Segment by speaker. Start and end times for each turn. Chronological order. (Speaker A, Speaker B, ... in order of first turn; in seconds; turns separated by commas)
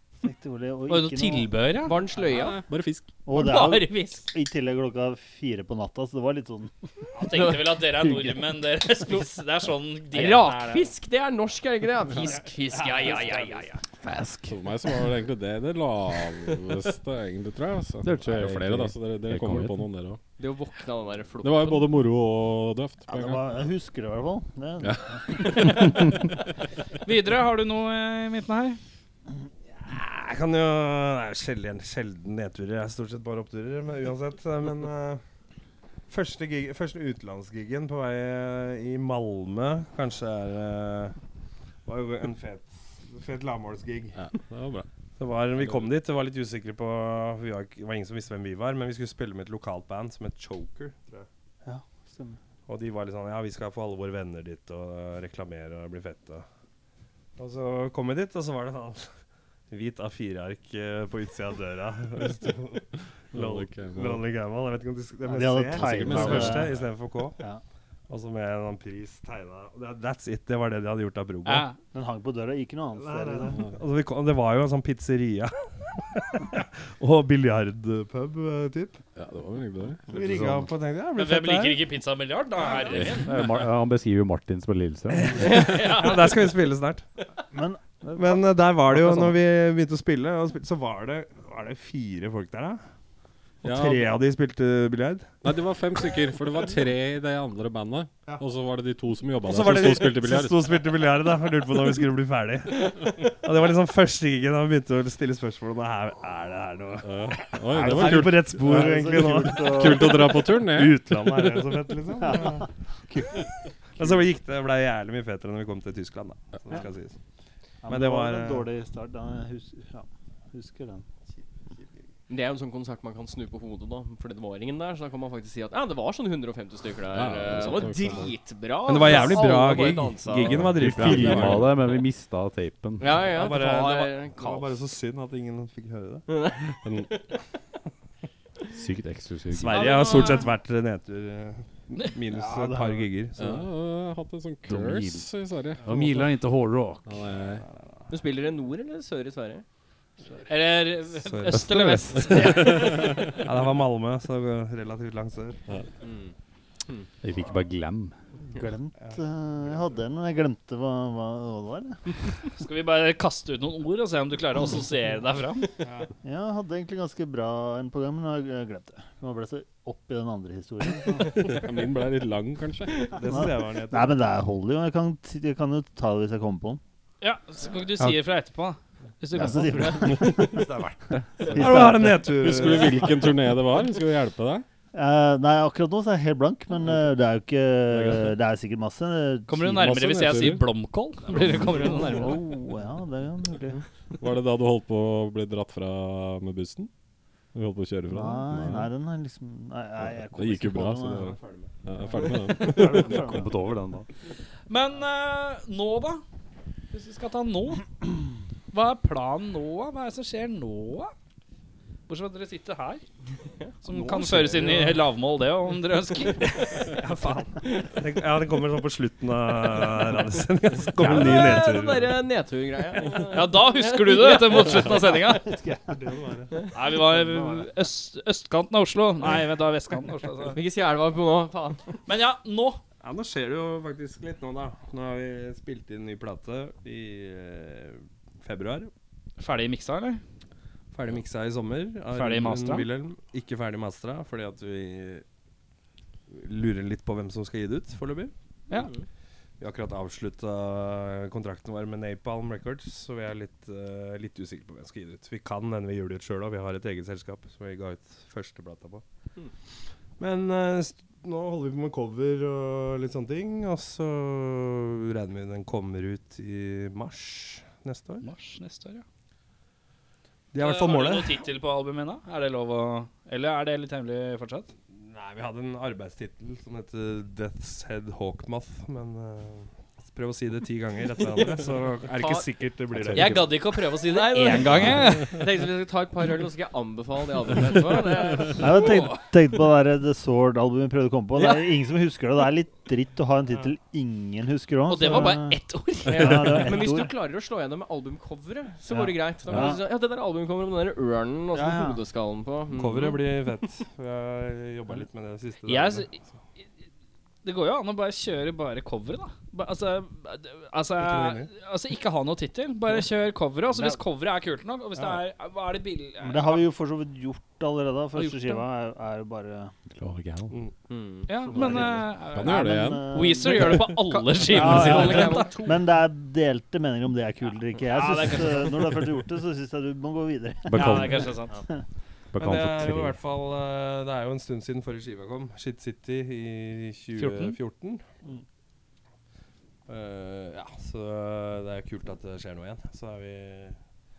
Speaker A: 0.2-1.7, Speaker B: 0.9-2.0, Speaker C: 1.8-2.6, Speaker D: 2.3-3.1, Speaker A: 3.2-6.7, Speaker B: 3.3-4.3, Speaker B: 7.1-10.9, Speaker C: 10.1-13.7, Speaker B: 12.7-13.8, Speaker E: 14.0-14.5, Speaker D: 14.5-20.2, Speaker E: 18.0-19.8, Speaker C: 20.4-21.9, Speaker D: 21.4-23.5, Speaker A: 23.1-25.7, Speaker D: 24.8-25.9, Speaker B: 25.6-26.0, Speaker B: 27.1-28.8, Speaker F: 29.8-35.2, Speaker F: 36.1-41.2, Speaker F: 41.9-44.2, Speaker D: 44.1-44.9, Speaker F: 45.2-51.3, Speaker D: 45.6-45.9, Speaker A: 51.6-52.4, Speaker F: 52.7-56.5, Speaker F: 57.4-59.1, Speaker F: 59.7-67.4, Speaker D: 63.3-64.2, Speaker A: 65.2-66.8, Speaker D: 65.8-66.8, Speaker F: 68.1-71.7, Speaker B: 71.4-71.8, Speaker A: 71.9-73.6, Speaker F: 72.9-79.0, Speaker D: 79.2-80.1, Speaker F: 80.1-81.9, Speaker E: 80.1-80.7, Speaker B: 81.1-83.4, Speaker F: 82.5-83.2, Speaker E: 83.2-85.4, Speaker F: 85.1-87.0, Speaker B: 85.4-86.4, Speaker A: 87.5-88.4, Speaker F: 88.1-92.8, Speaker D: 93.6-94.1, Speaker F: 93.6-95.4, Speaker D: 95.4-100.8, Speaker F: 99.4-112.7, Speaker D: 107.0-108.9, Speaker A: 107.7-110.4, Speaker D: 109.6-111.0, Speaker A: 112.2-113.3, Speaker F: 114.0-117.2, Speaker A: 117.8-121.0, Speaker F: 117.8-118.7, Speaker C: 122.3-131.6, Speaker D: 127.1-128.3, Speaker F: 128.8-131.7, Speaker E: 130.7-133.2, Speaker C: 133.0-134.8, Speaker F: 133.1-136.3, Speaker C: 136.3-137.2, Speaker D: 136.8-137.1, Speaker E: 138.7-139.9, Speaker F: 139.5-143.7, Speaker B: 139.7-140.5, Speaker C: 139.8-140.4, Speaker A: 142.3-143.1, Speaker D: 143.4-146.2, Speaker E: 144.7-145.3, Speaker E: 145.8-147.2, Speaker D: 147.0-147.6, Speaker C: 148.1-149.6, Speaker B: 150.5-153.2, Speaker F: 151.2-155.6, Speaker E: 151.5-152.4, Speaker D: 152.6-153.2, Speaker C: 156.1-156.3, Speaker E: 157.2-158.1, Speaker A: 158.5-162.0, Speaker B: 162.6-165.7, Speaker A: 166.2-171.6, Speaker D: 171.4-173.1, Speaker F: 173.1-174.2, Speaker A: 173.3-176.8, Speaker B: 177.2-180.2, Speaker A: 179.3-180.7, Speaker D: 180.1-180.4, Speaker A: 181.4-182.5, Speaker F: 181.5-183.2, Speaker D: 182.4-184.7, Speaker A: 184.9-189.9, Speaker D: 187.9-188.3, Speaker B: 189.5-192.4, Speaker D: 189.8-190.7, Speaker A: 191.4-193.8, Speaker D: 194.2-196.9, Speaker D: 197.5-198.8, Speaker A: 198.1-201.3, Speaker D: 200.3-203.2, Speaker F: 201.1-201.7, Speaker A: 202.2-203.7, Speaker E: 202.8-204.1, Speaker B: 204.7-206.2, Speaker B: 206.9-207.8, Speaker B: 208.7-211.1, Speaker B: 212.1-213.0, Speaker B: 213.8-216.6, Speaker F: 214.0-215.0, Speaker F: 216.8-222.2, Speaker C: 221.0-224.9, Speaker B: 223.3-225.6, Speaker A: 225.3-225.8, Speaker F: 225.9-227.6, Speaker B: 226.7-230.6, Speaker C: 230.4-231.8, Speaker B: 232.1-232.8, Speaker F: 233.0-238.9, Speaker B: 239.4-240.2, Speaker F: 240.9-245.2, Speaker B: 242.1-242.9, Speaker F: 246.3-248.3, Speaker F: 249.6-259.0, Speaker F: 260.2-268.2, Speaker B: 268.2-269.0, Speaker F: 270.5-271.4, Speaker B: 270.6-274.7, Speaker F: 274.9-283.5, Speaker C: 282.1-282.5, Speaker E: 283.1-283.4, Speaker B: 283.1-285.4, Speaker C: 284.0-289.1, Speaker A: 288.5-297.1, Speaker C: 291.4-291.8, Speaker B: 294.9-296.8, Speaker C: 295.1-295.4, Speaker C: 296.1-303.3, Speaker A: 298.9-299.9, Speaker D: 299.5-299.7, Speaker A: 301.5-302.0, Speaker F: 302.7-306.1, Speaker B: 305.6-306.2, Speaker B: 307.4-316.6, Speaker F: 311.0-311.5, Speaker A: 316.2-319.7, Speaker B: 318.2-318.6, Speaker E: 319.9-320.6, Speaker C: 320.9-321.6, Speaker B: 321.3-325.5, Speaker A: 321.4-323.8, Speaker D: 322.2-323.1, Speaker C: 323.4-325.9, Speaker A: 324.5-331.0, Speaker B: 327.9-329.0, Speaker E: 330.6-331.4, Speaker B: 330.7-331.6, Speaker E: 332.3-333.2, Speaker F: 332.4-338.0, Speaker B: 337.1-337.6, Speaker F: 339.9-343.8